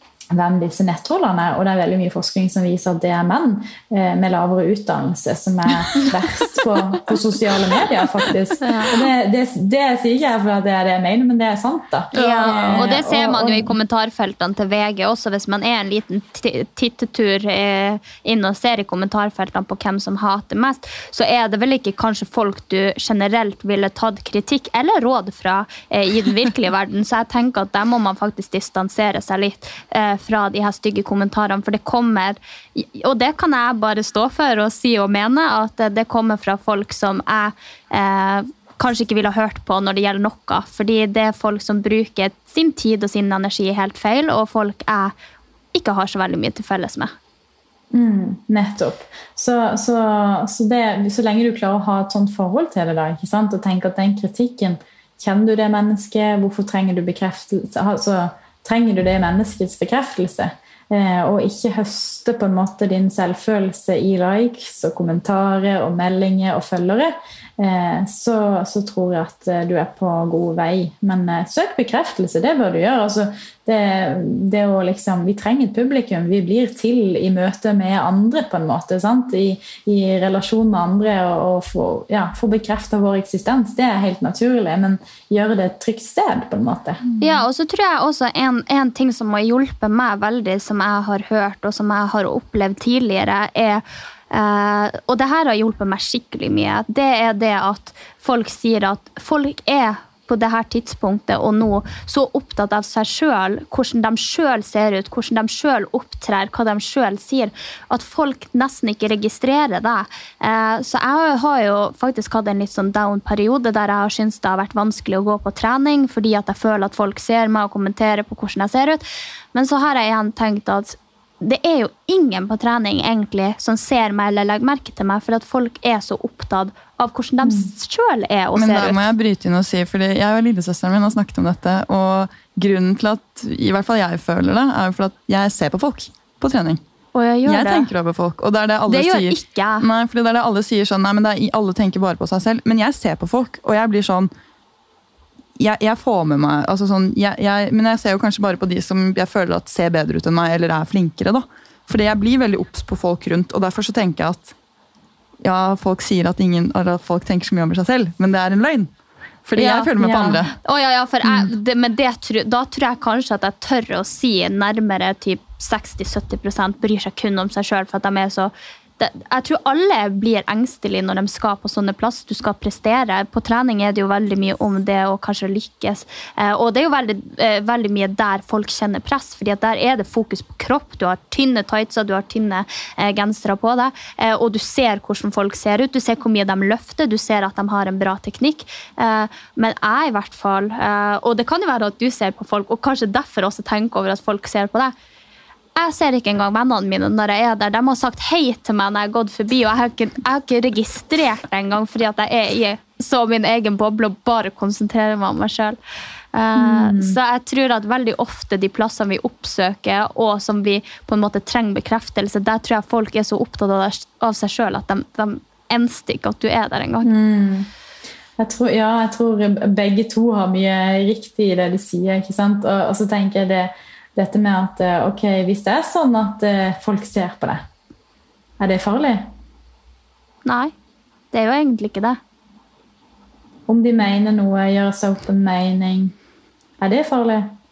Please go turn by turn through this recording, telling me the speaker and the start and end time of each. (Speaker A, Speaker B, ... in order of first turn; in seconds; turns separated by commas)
Speaker A: 0.3-13.7, Speaker B: 8.6-8.9, Speaker B: 12.1-45.1, Speaker C: 12.2-12.8, Speaker B: 45.7-47.1, Speaker A: 47.9-87.0, Speaker B: 87.2-129.1, Speaker C: 128.5-136.8, Speaker B: 137.1-137.9, Speaker C: 137.4-144.3, Speaker B: 138.9-139.8, Speaker C: 145.6-154.5, Speaker C: 155.4-158.9, Speaker C: 159.4-160.5, Speaker B: 159.6-194.9, Speaker A: 160.0-160.4, Speaker A: 161.2-161.5, Speaker B: 195.8-205.8, Speaker B: 206.3-217.1, Speaker A: 206.6-207.2, Speaker A: 217.0-217.7, Speaker A: 218.4-227.6, Speaker A: 228.6-229.3, Speaker B: 230.4-230.7, Speaker B: 231.3-232.2, Speaker A: 233.7-236.1, Speaker A: 236.8-237.5